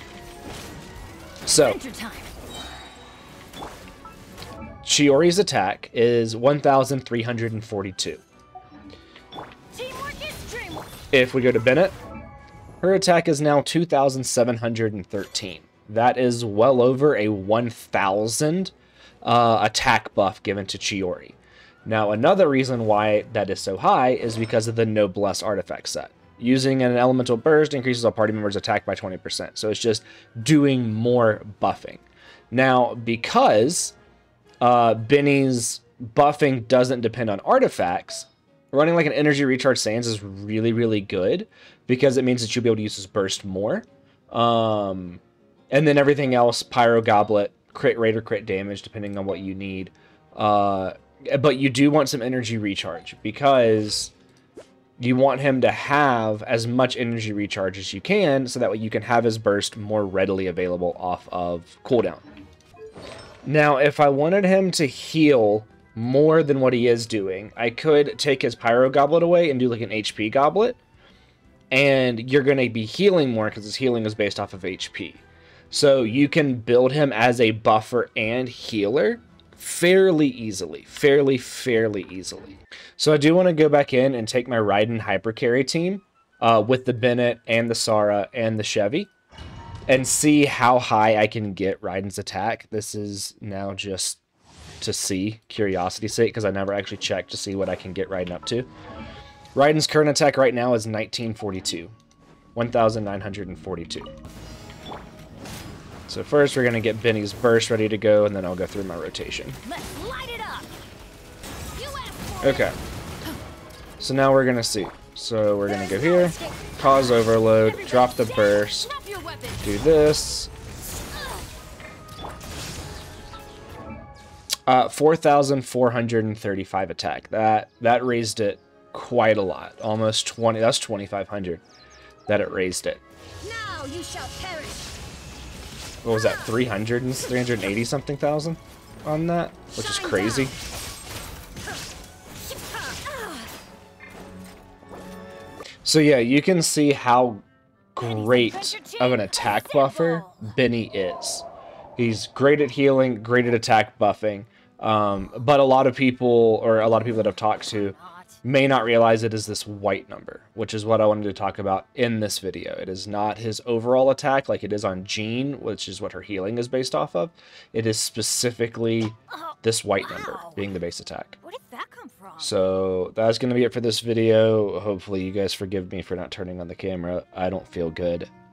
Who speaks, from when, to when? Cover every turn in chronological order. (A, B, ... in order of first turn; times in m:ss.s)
0:01.4-0:01.8 A
0:01.5-0:02.3 B
0:04.8-0:08.2 A
0:09.7-0:10.9 B
0:11.1-0:12.0 A
0:12.8-0:33.9 A
0:34.6-0:54.1 A
0:55.0-1:02.2 A
1:03.4-1:10.8 A
1:11.7-1:29.1 A
1:29.9-1:34.2 A
1:34.8-1:38.7 A
1:39.5-1:41.9 A
1:42.5-1:44.1 A
1:46.1-1:49.6 A
1:49.6-1:50.7 B
1:51.7-1:52.7 B
1:52.4-1:52.8 A
1:54.0-1:58.9 A
1:55.7-1:59.8 B
1:59.6-2:00.5 A
2:01.1-2:01.5 B
2:04.7-2:11.6 A
2:12.3-2:13.0 A
2:13.4-2:14.9 B
2:16.0-2:20.6 A
2:19.8-2:20.6 B
2:22.5-2:23.5 B
2:25.8-2:51.4 A
2:28.1-2:30.5 B
2:50.0-2:50.6 B
2:51.4-2:52.5 B
2:52.4-2:58.3 A